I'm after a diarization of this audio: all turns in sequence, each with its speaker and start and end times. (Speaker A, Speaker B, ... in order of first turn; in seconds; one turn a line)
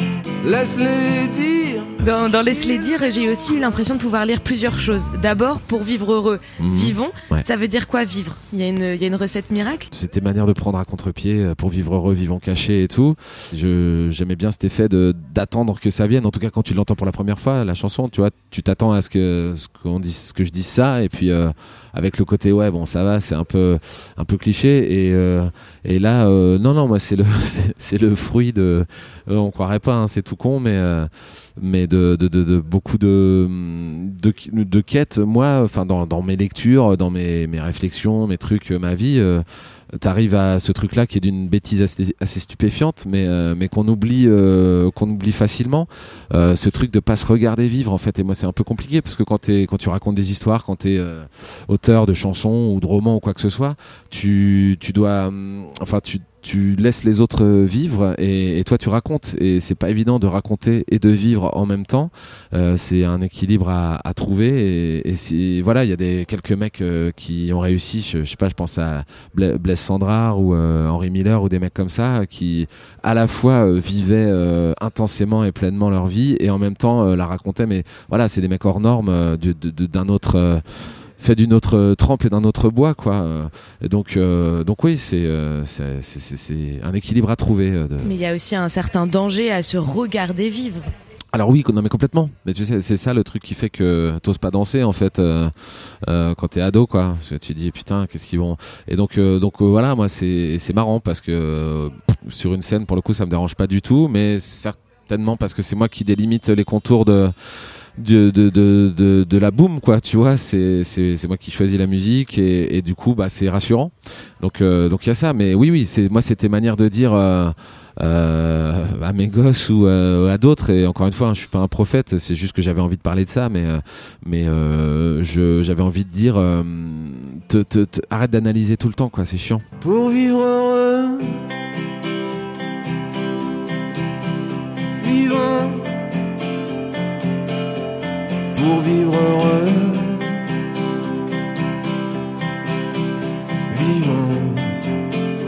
Speaker A: 0.4-1.9
Speaker B: 2.0-9.9
Speaker C: 6.6-7.5
Speaker C: 9.9-80.6
Speaker C: 81.2-88.2
Speaker B: 88.0-90.9
Speaker C: 91.3-107.3
Speaker C: 108.0-129.6
Speaker A: 129.8-131.4
Speaker A: 135.0-135.9
Speaker A: 138.5-140.4
Speaker A: 143.7-144.8